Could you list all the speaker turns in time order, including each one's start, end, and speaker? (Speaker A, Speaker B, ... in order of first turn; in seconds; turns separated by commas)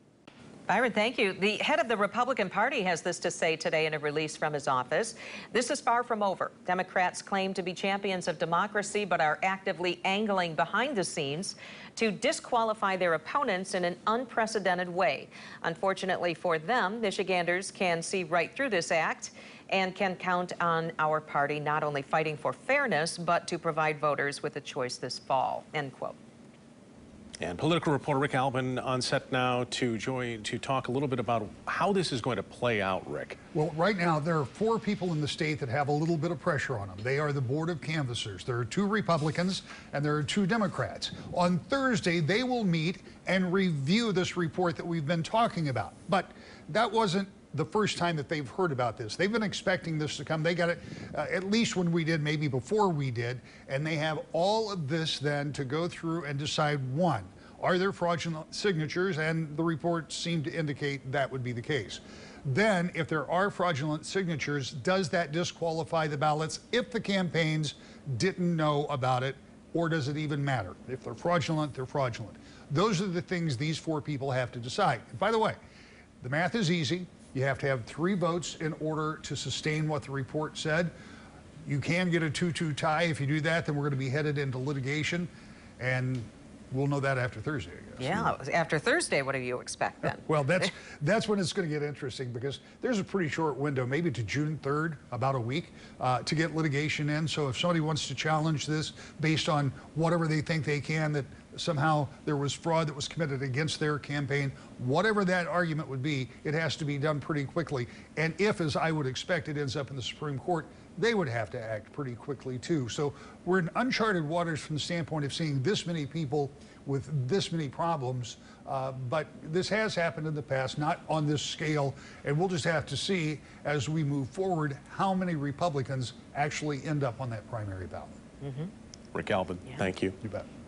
Speaker A: 0.7-26.1, Speaker B: 27.4-33.4, Speaker C: 33.5-75.6, Speaker C: 76.2-80.9, Speaker C: 81.7-88.3, Speaker A: 88.0-90.7, Speaker C: 90.2-128.2, Speaker A: 128.4-128.7, Speaker B: 129.1-130.2